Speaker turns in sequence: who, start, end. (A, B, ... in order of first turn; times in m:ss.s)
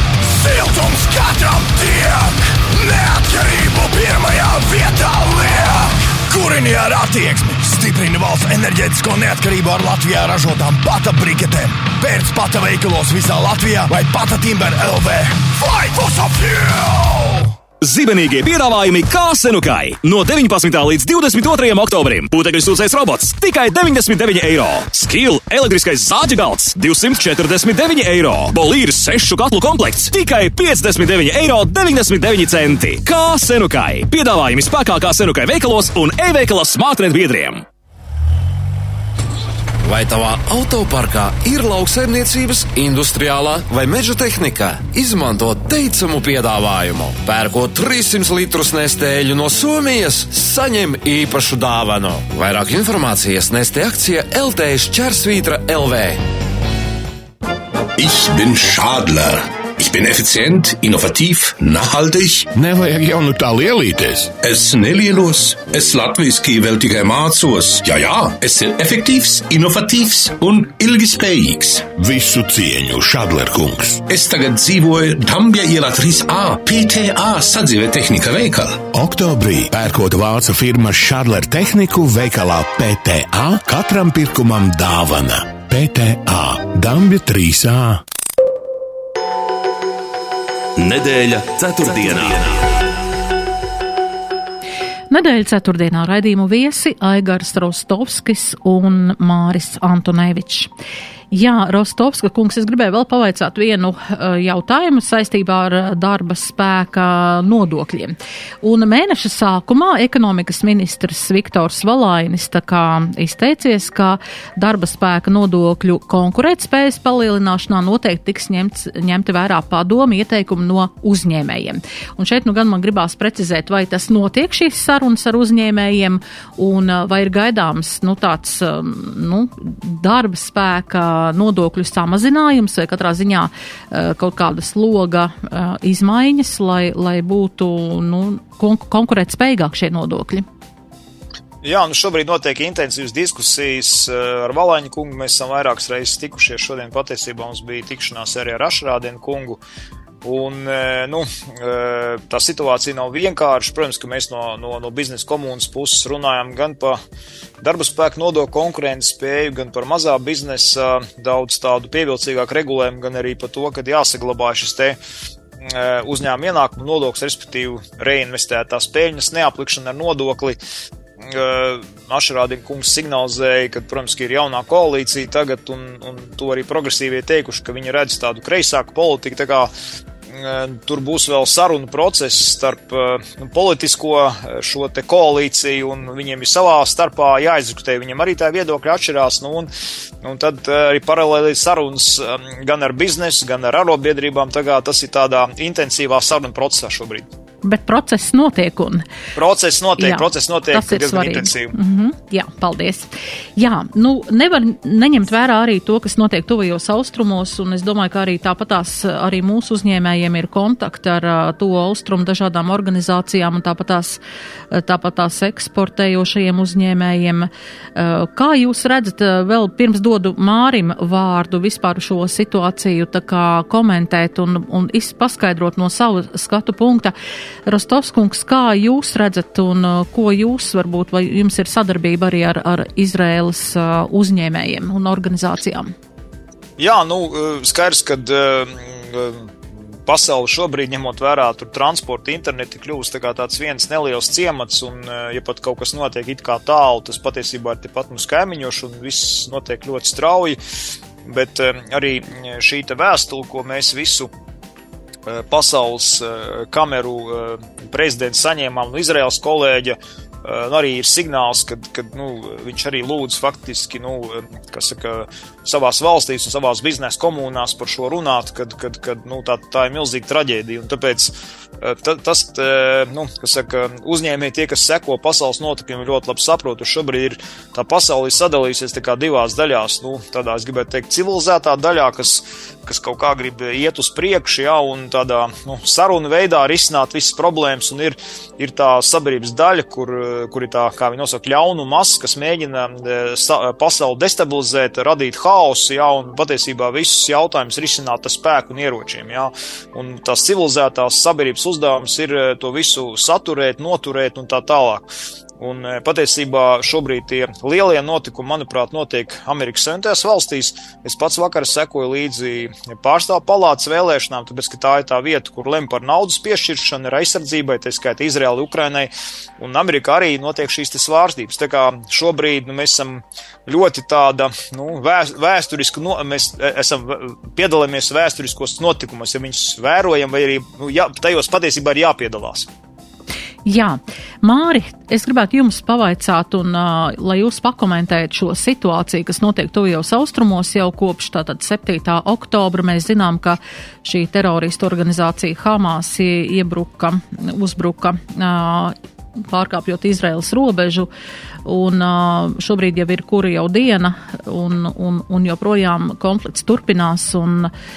0:00.4-0:17.4 A
0:17.8-0:37.6 B
0:39.9-0:56.2 C
0:58.0-1:02.5 D
1:02.5-1:04.3 E
1:04.4-1:11.9 D
1:11.9-1:14.0 E
1:14.1-1:18.9 D
1:18.9-1:28.0 E
1:30.8-1:32.7 F
1:35.1-1:40.7 G
1:41.3-2:20.4 G
2:21.6-2:29.6 H
2:30.2-2:37.0 H
2:37.6-2:45.0 H
2:45.6-2:50.6 H
2:51.2-2:59.7 H
3:00.3-3:09.7 H
3:10.2-3:17.3 H
3:17.6-3:19.0 G
3:19.4-3:21.7 H
3:20.0-3:34.2 G
3:34.7-3:47.1 G
3:47.6-3:55.9 G
3:56.8-3:59.5 H
4:00.1-4:10.6 H
4:11.2-4:14.3 H
4:15.3-5:32.7 H
5:33.6-5:49.0 G
5:49.5-5:51.1 G
5:51.6-5:57.7 G